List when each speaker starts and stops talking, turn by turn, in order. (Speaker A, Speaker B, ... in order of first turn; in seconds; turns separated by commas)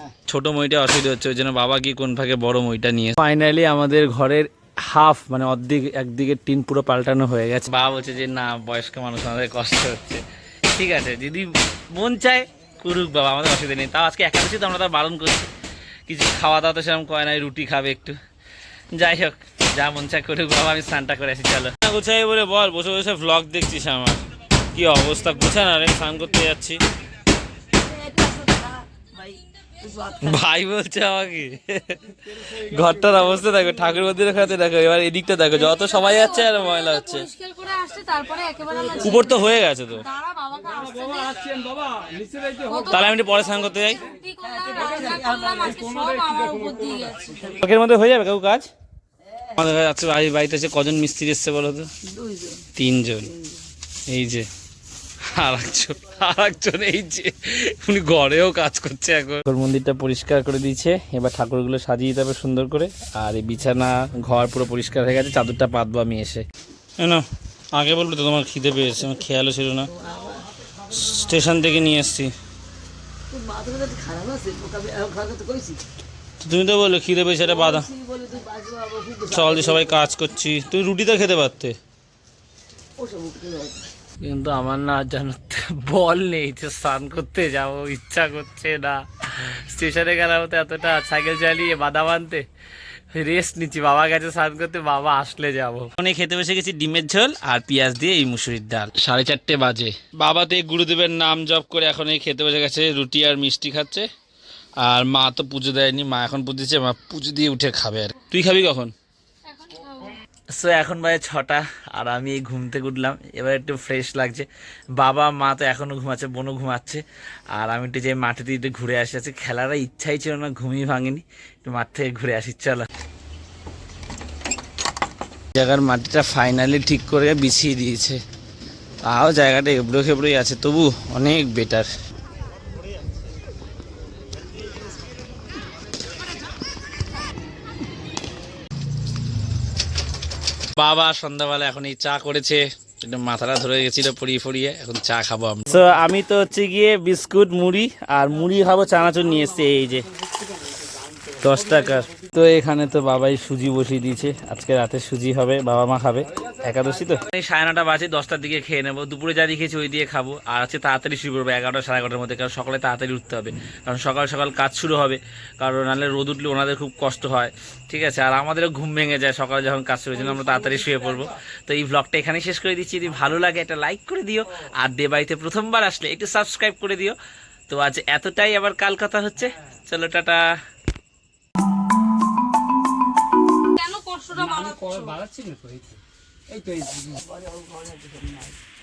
Speaker A: 0.3-15.5, Speaker A: 16.1-18.2, Speaker A: 18.9-24.2, Speaker A: 24.7-26.8, Speaker B: 27.8-30.4, Speaker A: 30.2-37.3, Speaker C: 32.2-33.5, Speaker D: 36.0-39.2, Speaker B: 38.8-39.2, Speaker A: 38.9-40.1, Speaker D: 40.1-41.3, Speaker C: 40.8-42.9, Speaker A: 42.9-44.0, Speaker D: 44.0-47.2, Speaker B: 44.4-45.8, Speaker C: 45.6-47.5, Speaker A: 47.4-48.7, Speaker A: 49.5-51.9, Speaker B: 52.0-53.6, Speaker A: 52.7-53.3, Speaker A: 54.1-54.5, Speaker A: 55.3-66.5, Speaker A: 67.0-69.9, Speaker B: 70.0-70.5, Speaker A: 70.9-72.3, Speaker B: 73.3-75.8, Speaker A: 76.4-77.9, Speaker B: 77.4-80.1, Speaker A: 79.3-81.8, Speaker B: 83.0-83.9, Speaker A: 84.2-92.4, Speaker A: 93.1-104.1, Speaker A: 104.8-108.9, Speaker D: 109.6-110.2, Speaker A: 110.5-122.9, Speaker A: 125.5-128.2, Speaker A: 129.0-131.9, Speaker A: 140.8-150.1, Speaker C: 150.7-152.3, Speaker A: 151.4-177.2, Speaker A: 177.7-180.4, Speaker D: 183.8-185.1, Speaker C: 184.3-187.2, Speaker B: 187.1-188.6